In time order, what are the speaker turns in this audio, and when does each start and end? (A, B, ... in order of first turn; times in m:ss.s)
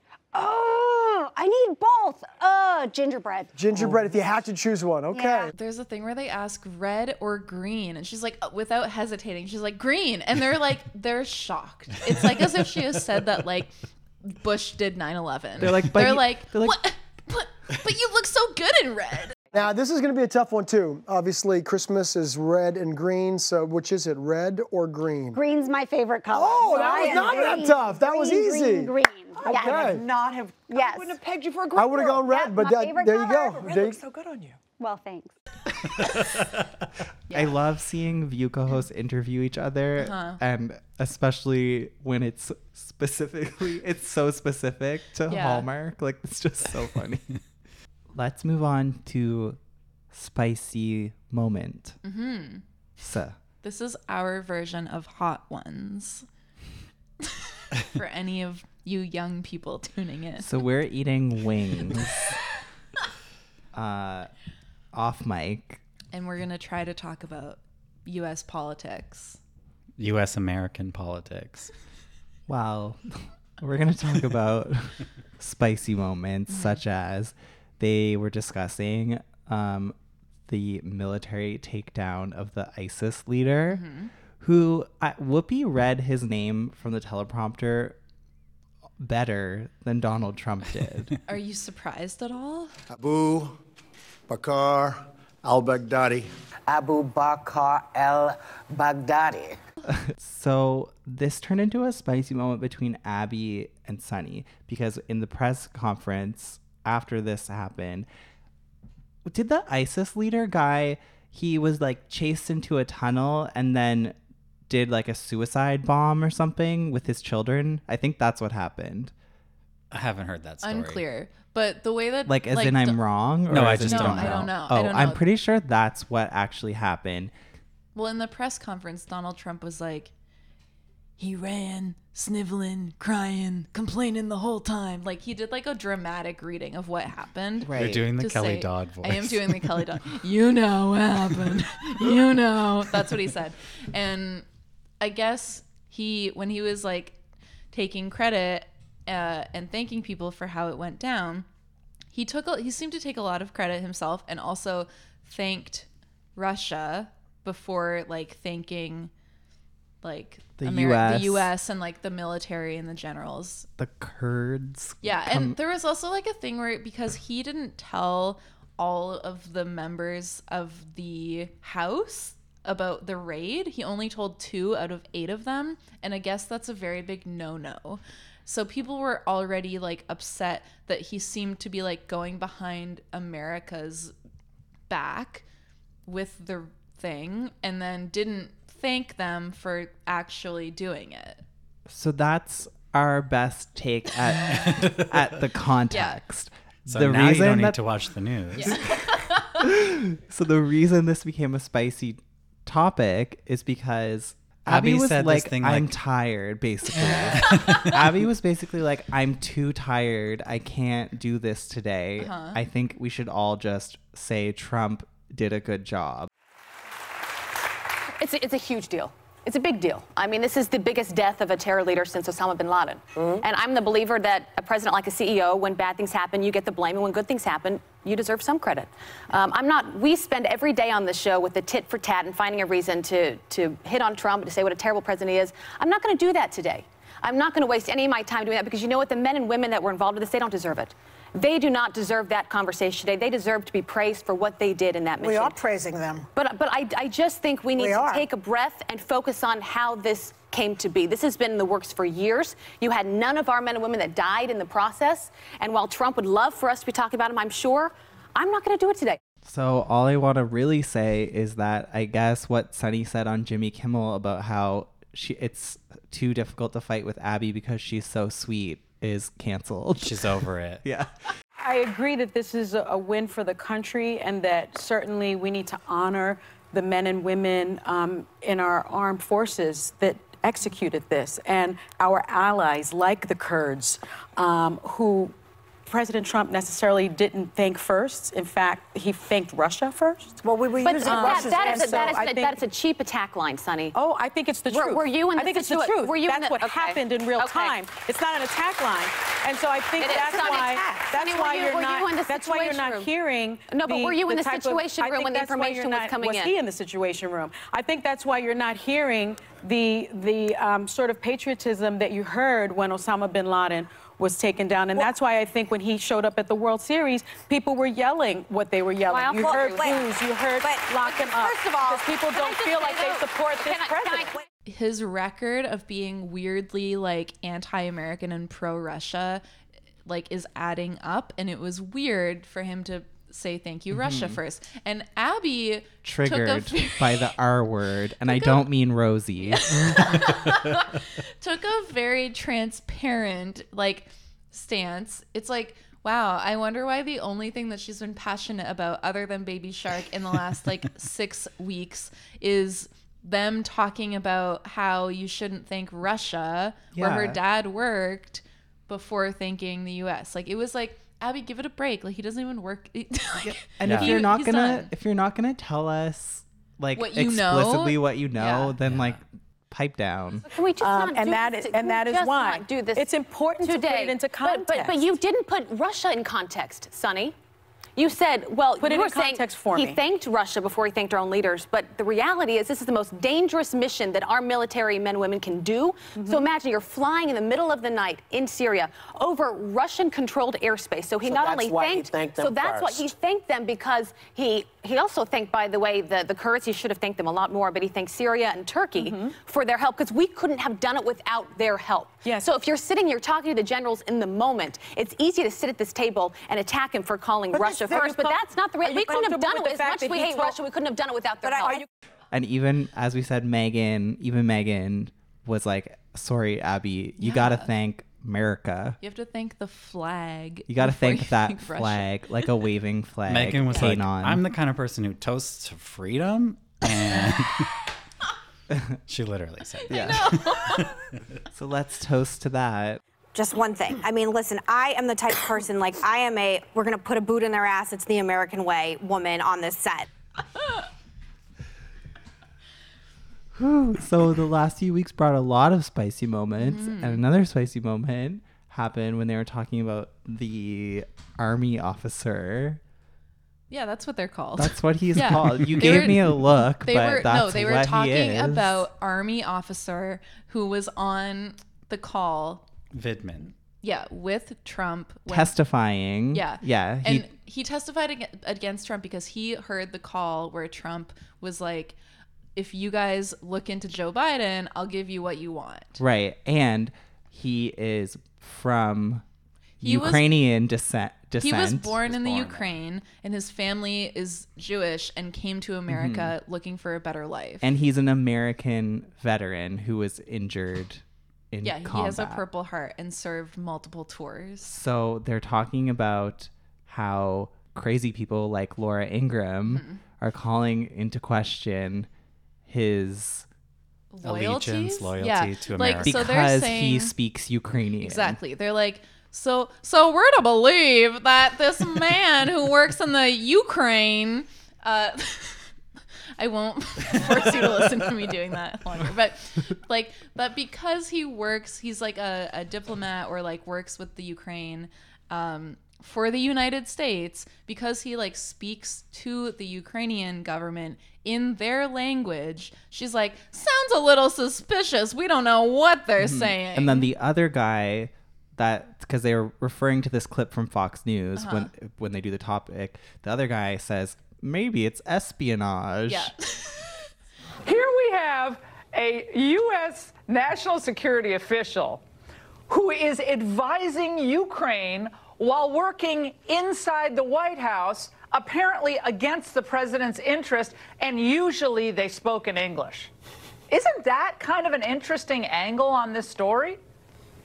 0:00.3-0:04.0 A
0:03.6-0:05.5 B
0:05.1-0:05.5 A
0:05.5-0:19.4 C
0:15.6-0:16.8 D
0:19.5-0:25.4 B
0:25.3-0:30.0 A
0:26.3-0:29.0 B
0:26.7-0:27.6 E
0:29.4-0:32.3 E
0:29.6-0:30.1 B
0:30.7-0:31.2 A
0:31.7-0:34.0 B
0:32.0-0:34.0 A
0:33.6-0:34.6 E
0:34.8-0:35.3 A
0:37.3-0:37.6 C
0:37.3-0:47.3 D
0:40.0-0:40.4 C
0:45.3-0:45.7 C
0:48.1-0:49.6 D
0:50.1-0:52.0 D
0:52.0-0:52.6 C
0:53.0-0:53.4 D
0:53.6-0:56.3 C
0:57.2-1:00.5 C
1:00.4-1:02.3 D
1:03.7-1:04.3 D
1:04.9-1:05.8 D
1:06.1-1:09.4 C
1:10.0-1:11.7 F
1:12.5-1:20.0 D
1:16.5-1:16.8 C
1:20.5-1:23.8 D
1:23.7-1:24.1 C
1:24.4-1:28.0 D
1:29.0-1:31.1 D
1:31.3-1:32.7 C
1:36.7-1:39.6 G
1:39.8-1:48.1 D
1:49.2-1:54.2 D
1:54.7-1:59.1 D
1:59.9-2:01.0 F
2:00.6-2:03.0 C
2:02.3-2:07.3 D
2:03.5-2:04.5 F
2:03.8-2:05.2 C
2:08.0-2:10.1 C
2:11.2-2:24.4 C
2:17.6-2:18.1 D
2:17.7-2:19.9 F
2:25.0-2:27.2 C
2:27.7-2:31.4 C
2:32.1-2:39.1 C
2:40.0-2:43.7 C
2:40.6-2:41.5 D
2:43.8-2:45.6 D
2:45.0-3:04.1 C
3:04.9-3:05.4 C
3:06.0-3:11.4 C
3:11.9-3:17.8 D
3:14.7-3:15.0 F
3:15.9-3:16.2 C
3:16.9-3:18.8 F
3:18.6-3:19.6 C
3:18.6-3:36.3 D
3:24.7-3:26.0 F
3:27.0-3:28.0 F
3:32.2-3:32.6 C
3:38.2-4:05.6 H
3:43.2-3:43.4 G
4:05.2-4:06.3 E
4:06.4-4:19.2 H
4:07.8-4:08.2 E
4:19.4-4:31.1 D
4:30.0-4:30.8 F
4:31.6-4:45.3 I
4:45.9-4:52.6 I
4:50.4-4:52.2 E
4:50.8-4:54.0 H
4:53.9-5:24.3 I
4:54.7-4:57.7 H
5:00.0-5:03.1 H
5:03.7-5:06.6 H
5:19.1-5:20.1 H
5:19.4-5:20.0 J
5:20.6-5:22.1 J
5:22.3-5:24.4 H
5:24.7-5:29.4 C
5:30.0-5:37.3 C
5:33.9-5:34.4 D
5:36.0-5:40.3 D
5:38.3-5:38.7 C
5:39.4-6:04.9 C
5:56.9-5:57.4 D
6:03.4-6:10.4 D
6:03.8-6:04.1 F
6:07.0-6:08.7 C
6:08.8-6:09.2 F
6:10.4-6:17.4 H
6:10.8-6:15.0 I
6:18.0-6:51.8 H
6:18.8-6:20.0 I
6:26.2-6:26.4 I
6:31.2-6:33.1 G
6:39.0-6:39.3 I
6:47.5-6:50.6 I
6:52.3-6:59.0 D
6:57.2-6:57.7 C
6:59.0-7:02.1 C
7:00.7-7:04.4 D
7:03.3-7:07.7 F
7:08.7-7:09.0 D
7:09.1-7:10.9 F
7:09.8-7:11.0 C
7:09.9-7:10.4 D
7:11.5-7:13.0 D
7:13.3-7:20.1 J
7:23.5-7:32.8 D
7:26.6-7:27.2 C
7:33.7-7:42.6 C
7:34.6-7:38.9 D
7:35.8-7:36.2 F
7:42.9-7:43.5 F
7:43.8-7:45.6 C
7:45.3-7:47.3 D
7:46.3-7:52.0 C
7:52.6-7:56.0 C
7:56.0-7:59.2 D
7:59.8-8:02.0 D
7:59.8-8:00.3 C
8:01.4-8:07.7 C
8:02.1-8:02.7 F
8:05.9-8:06.3 D
8:07.6-8:12.4 D
8:11.6-8:14.7 C
8:14.6-8:22.1 D
8:19.7-8:20.0 C
8:22.7-8:23.4 D
8:24.1-8:27.1 C
8:24.2-8:26.2 F
8:26.0-8:28.4 D
8:28.0-8:35.7 C
8:36.4-8:57.1 C
8:56.2-9:06.3 D
9:01.4-9:01.7 C
9:06.1-9:06.9 C
9:07.6-9:12.0 K
9:12.7-9:23.1 K
9:23.7-9:26.8 K